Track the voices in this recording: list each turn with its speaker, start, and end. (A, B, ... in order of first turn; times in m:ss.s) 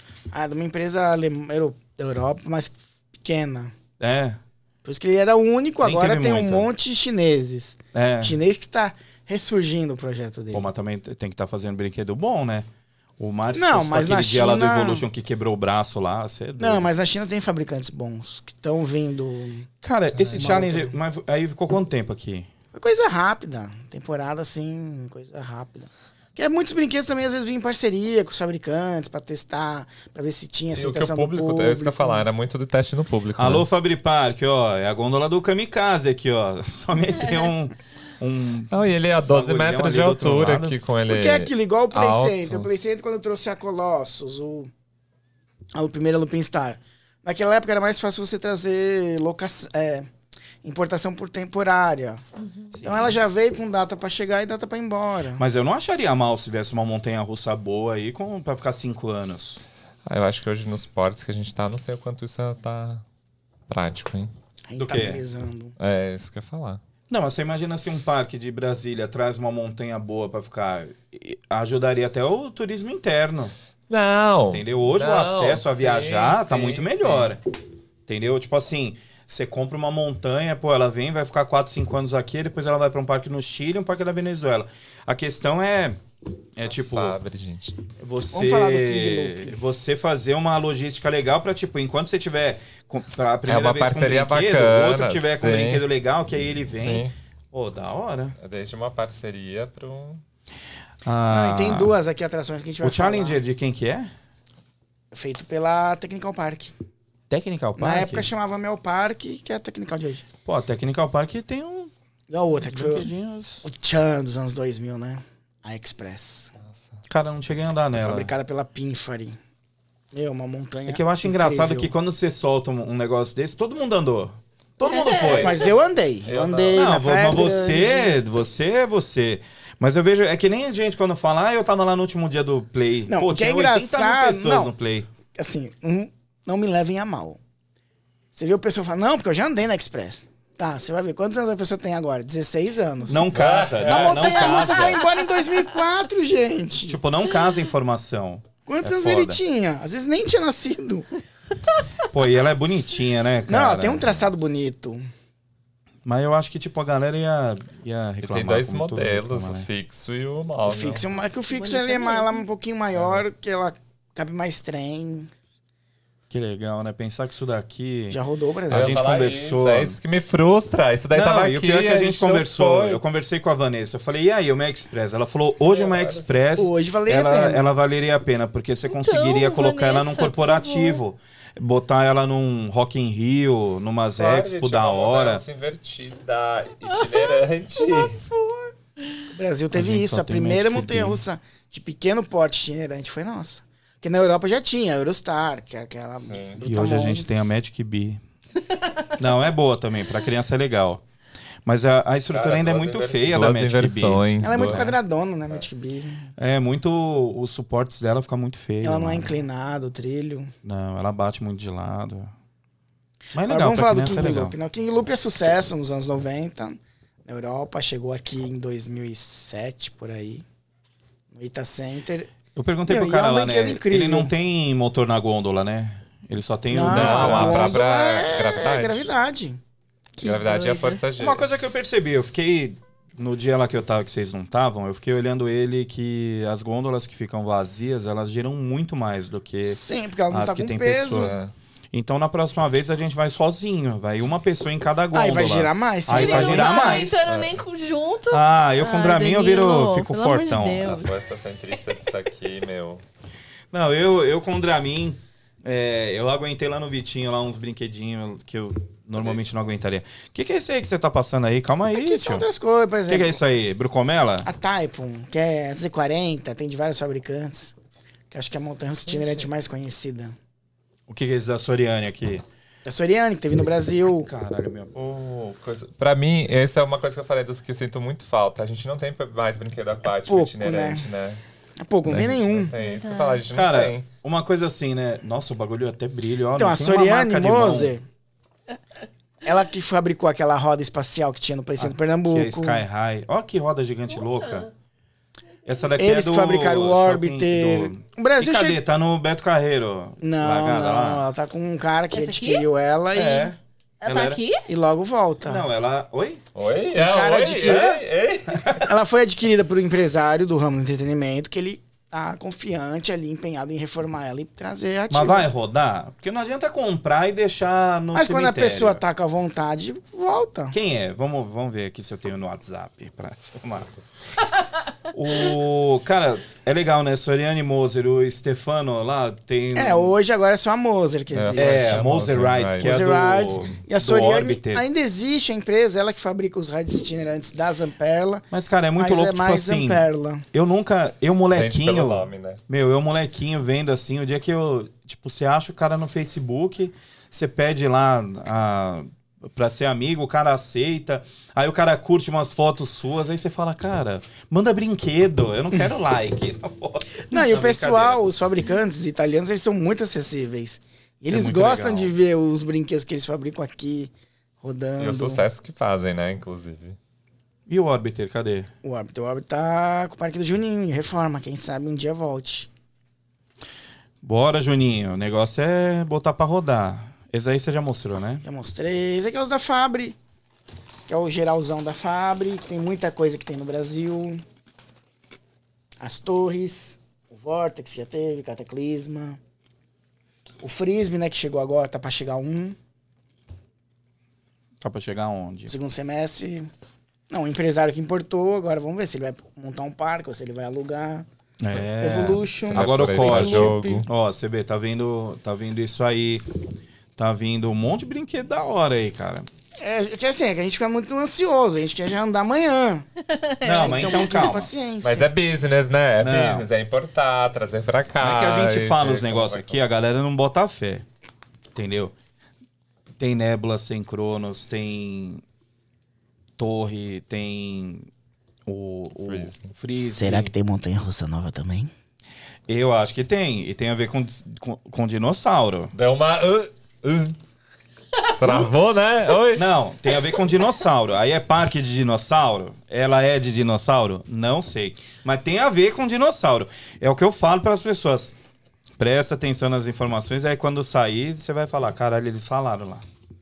0:00.3-0:03.7 A
0:04.0-0:04.4 B
0:04.8-0:10.6 A
0:05.8-0:06.7 B
0:07.9-0:08.4 B
0:10.5-0:12.6 B
0:13.2-0:16.9 B
0:13.5-0:15.0 A
0:16.6-0:19.7 A
0:19.8-0:22.5 B
0:20.3-0:20.9 A
0:22.7-0:32.3 A
0:30.7-0:33.6 C
0:33.4-0:40.8 B
0:38.7-0:42.7 C
0:41.1-0:44.7 A
0:45.7-0:50.1 A
0:50.6-0:52.2 A
0:52.4-0:52.7 D
0:52.7-0:53.2 B
0:52.8-0:55.4 A
0:55.4-0:59.6 B
1:00.0-1:03.0 C
1:03.7-1:04.3 C
1:04.7-1:05.8 A
1:04.8-1:05.2 B
1:05.8-1:06.8 C
1:07.1-1:13.5 B
1:13.9-1:17.3 C
1:14.5-1:17.4 B
1:18.1-1:26.0 B
1:26.6-1:27.2 B
1:26.9-1:27.8 C
1:28.0-1:38.4 B
1:28.3-1:29.6 A
1:33.4-1:35.8 C
1:36.8-1:37.1 C
1:38.4-1:40.2 C
1:41.0-1:42.0 B
1:41.3-1:43.4 A
1:42.8-1:44.1 B
1:45.1-1:46.7 A
1:47.3-1:48.3 B
1:47.8-1:50.3 A
1:50.4-1:51.9 B
1:52.3-1:53.1 A
1:52.6-1:53.6 B
1:53.6-1:56.5 A
1:57.1-1:58.3 B
1:57.9-1:59.4 A
2:00.1-2:01.9 A
2:00.9-2:05.7 B
2:04.8-2:05.6 D
2:05.4-2:08.2 A
2:06.2-2:06.9 C
2:06.7-2:15.1 B
2:13.1-2:14.7 A
2:15.3-2:17.4 A
2:18.3-2:23.3 A
2:23.1-2:25.1 B
2:23.3-2:24.8 C
2:23.8-2:27.0 A
2:26.9-2:29.4 B
2:28.7-2:31.1 A
2:32.0-2:34.2 B
2:33.5-2:35.0 A
2:36.0-2:39.7 B
2:38.2-2:41.0 C
2:40.6-2:45.3 A
2:41.5-2:42.4 D
2:46.3-2:48.2 B
2:48.1-2:49.0 A
2:48.7-2:50.0 B
2:48.7-2:53.0 C
2:51.1-3:05.4 B
2:55.6-2:56.3 C
2:56.6-2:57.6 A
2:58.8-3:01.0 D
3:04.2-3:08.2 C
3:06.9-3:08.7 D
3:09.3-3:17.5 A
3:09.7-3:11.2 B
3:16.2-3:16.6 C
3:16.6-3:18.2 B
3:19.2-3:21.0 B
3:21.6-3:25.0 B
3:22.3-3:24.9 C
3:24.4-3:26.3 A
3:26.4-3:29.3 B
3:28.8-3:30.5 A
3:30.6-3:32.3 B
3:33.3-3:34.5 B
3:33.4-3:40.4 A
3:41.3-3:42.3 A
3:42.5-3:47.8 B
3:42.9-3:44.3 A
3:46.7-3:49.6 A
3:46.8-3:49.1 C
3:50.2-3:51.0 D
3:50.2-3:51.4 C
3:51.2-4:01.3 B
3:59.6-4:01.3 A
4:01.1-4:01.5 C
4:01.9-4:07.2 B
4:05.1-4:07.1 A
4:06.1-4:11.1 D
4:07.2-4:07.6 C
4:08.3-4:10.9 B
4:10.8-4:13.0 C
4:13.7-4:22.4 B
4:21.9-4:23.4 A
4:23.1-4:24.5 B
4:24.4-4:27.7 A
4:28.3-4:30.3 A
4:29.1-4:29.4 C
4:31.1-4:32.4 B
4:32.8-4:34.3 A
4:34.0-4:34.9 B
4:34.9-4:41.4 C
4:40.2-4:41.1 A
4:41.8-4:42.7 A
4:42.0-4:44.0 C
4:42.8-4:43.5 D
4:43.5-4:47.9 B
4:46.6-4:48.0 A
4:49.4-4:52.8 A
4:51.8-4:54.7 B
4:54.2-4:54.6 D
4:55.6-5:01.2 B
4:56.0-4:58.8 A
5:00.2-5:03.5 A
5:02.1-5:02.6 D
5:03.1-5:04.4 B
5:04.0-5:04.7 D
5:04.6-5:05.6 A
5:05.4-5:06.4 B
5:06.5-5:08.8 C
5:06.9-5:08.0 A
5:07.6-5:08.0 B
5:08.5-5:08.8 B
5:08.8-5:15.5 A
5:15.1-5:19.0 B
5:18.1-5:20.8 A
5:20.7-5:24.0 B
5:25.1-5:30.1 B
5:29.7-5:32.1 A
5:31.3-5:33.2 C
5:31.6-5:34.8 B
5:32.8-5:38.4 A
5:38.5-5:58.2 B
5:39.0-5:40.4 A
5:41.5-5:42.6 C
5:57.3-6:05.4 A
6:01.3-6:02.1 B
6:05.0-6:07.0 C
6:07.7-6:08.7 B
6:08.8-6:12.7 A
6:14.2-6:18.4 B
6:18.4-6:20.2 A
6:21.1-6:24.4 A
6:26.0-6:29.4 A
6:30.6-6:32.8 A
6:34.8-6:35.7 B
6:35.7-6:36.7 A
6:37.3-6:41.2 A
6:41.6-6:46.4 B
6:41.7-6:44.1 C
6:42.0-6:44.0 A
6:47.2-6:49.5 B
6:49.8-6:53.0 A
6:53.4-6:54.3 D
6:53.6-6:54.7 B
6:53.6-6:55.3 A
6:55.0-6:59.8 C
6:56.2-6:56.6 B
6:58.2-7:01.0 B
7:01.7-7:02.1 B
7:03.2-7:05.4 B
7:06.6-7:08.1 B
7:08.7-7:10.5 B
7:09.2-7:09.7 C
7:09.9-7:11.9 A
7:12.7-7:15.9 B
7:15.9-7:17.4 C
7:18.4-7:19.7 C
7:19.6-7:28.3 B
7:29.0-7:33.0 B